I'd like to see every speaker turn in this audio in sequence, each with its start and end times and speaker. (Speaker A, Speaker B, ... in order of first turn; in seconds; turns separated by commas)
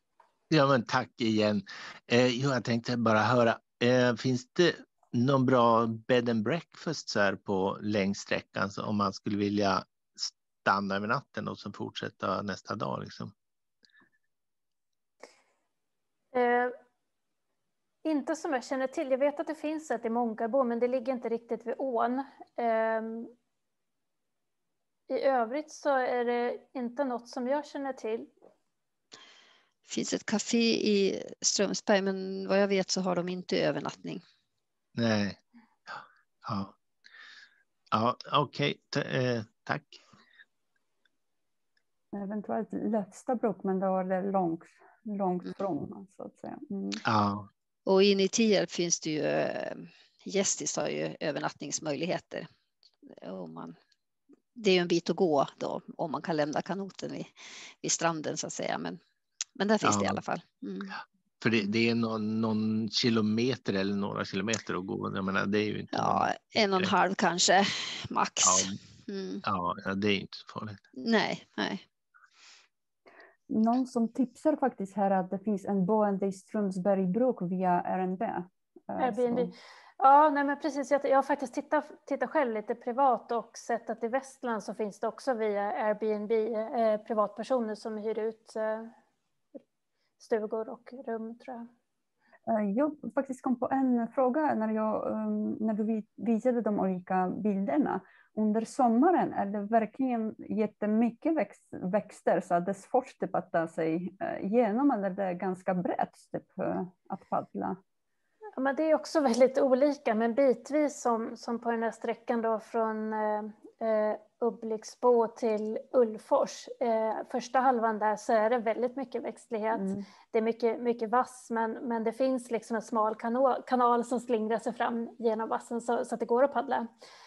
Speaker A: 0.5-13.3, Speaker B: 16.3-16.7, Speaker B: 18.0-23.3, Speaker B: 25.1-28.3, Speaker C: 29.9-34.2, Speaker A: 34.9-35.4, Speaker A: 36.4-36.7, Speaker A: 37.9-40.0, Speaker D: 42.1-47.0, Speaker A: 47.0-47.5, Speaker C: 47.9-52.5, Speaker C: 53.1-53.8, Speaker C: 54.5-59.0, Speaker C: 59.5-61.0, Speaker A: 59.8-60.2, Speaker A: 61.4-66.9, Speaker C: 65.9-69.4, Speaker A: 68.4-68.8, Speaker A: 69.4-70.8, Speaker C: 70.9-71.8, Speaker D: 73.5-79.5, Speaker B: 79.0-88.9, Speaker B: 90.2-91.7, Speaker D: 92.5-107.8, Speaker B: 108.6-126.9, Speaker D: 119.7-120.0